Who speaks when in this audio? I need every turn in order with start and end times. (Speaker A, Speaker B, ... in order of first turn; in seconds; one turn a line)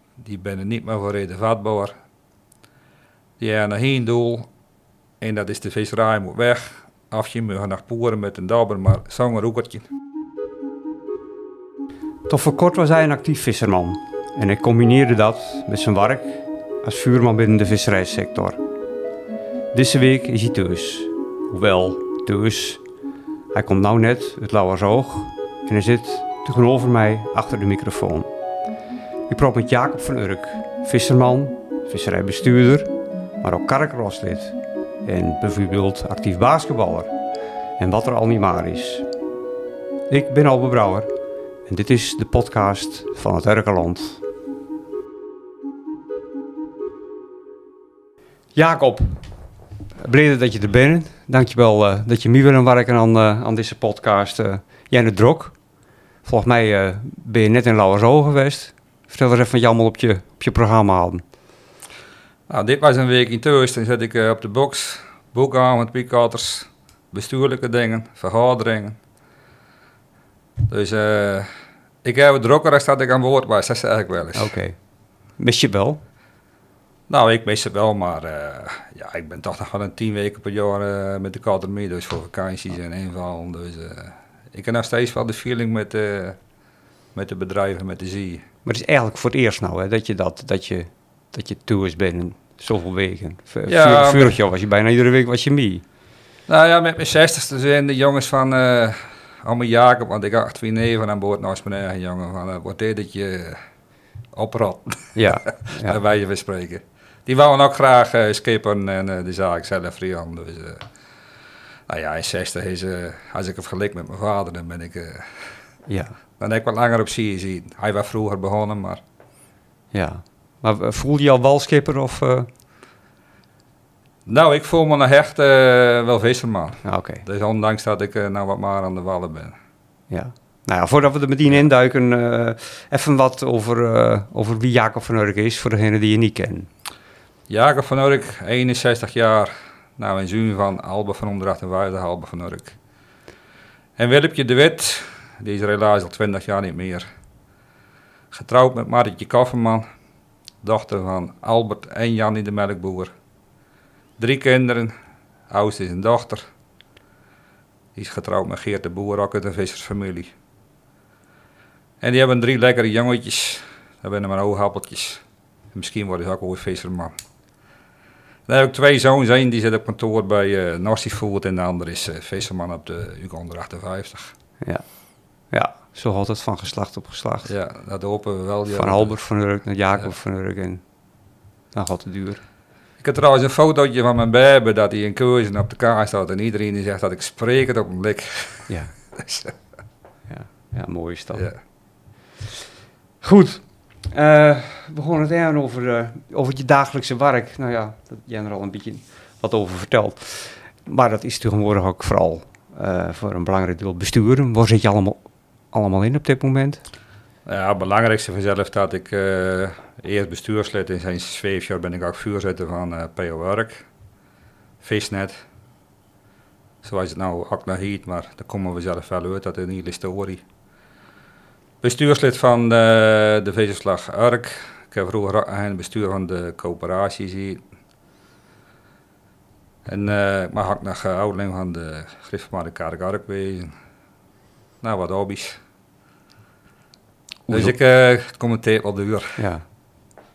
Speaker A: 0.2-1.9
Speaker A: 3.4-4.5
Speaker A: 5.2-9.9
Speaker B: 12.3-18.6
Speaker B: 19.7-22.8
Speaker B: 23.5-28.3
Speaker B: 29.3-32.9
Speaker B: 33.4-37.1
Speaker B: 37.8-39.1
Speaker B: 40.1-41.1
Speaker B: 41.7-44.2
Speaker B: 48.5-49.2
Speaker B: 50.0-55.5
Speaker B: 56.2-61.2
Speaker A: 62.5-69.0
Speaker A: 70.7-71.5
Speaker A: 72.0-74.5
Speaker B: 74.3-74.8
Speaker B: 75.4-76.0
Speaker A: 77.1-86.4
Speaker A: 87.1-88.4
Speaker B: 88.6-95.8
Speaker A: 93.7-94.4
Speaker A: 96.5-103.6
Speaker A: 104.3-110.8
Speaker B: 105.1-106.0
Speaker A: 111.9-115.5
Speaker B: 115.9-116.1
Speaker A: 116.4-119.0
Speaker B: 119.9-122.5
Speaker A: 124.2-129.6
Speaker B: 126.8-127.2
Speaker B: 130.1-136.7
Speaker A: 137.5-142.8
Speaker A: 144.0-147.1
Speaker A: 148.3-149.8
Speaker A: 150.6-153.1
Speaker A: 154.2-154.9
Speaker A: 155.5-156.4
Speaker A: 158.0-160.3
Speaker A: 162.0-165.2
Speaker A: 165.7-167.1
Speaker A: 168.5-174.3
Speaker B: 174.6-174.9
Speaker B: 175.5-177.5
Speaker A: 177.4-179.2
Speaker B: 178.7-180.8
Speaker B: 181.7-182.4
Speaker A: 183.0-189.5
Speaker B: 188.7-188.9
Speaker B: 190.3-191.5
Speaker A: 191.3-191.6
Speaker B: 193.2-205.2
Speaker B: 205.7-206.8
Speaker A: 207.5-213.8
Speaker A: 214.8-215.4
Speaker A: 216.8-220.4
Speaker A: 221.8-227.6
Speaker A: 229.8-233.8
Speaker A: 234.8-235.6
Speaker A: 237.5-239.4
Speaker B: 239.4-239.7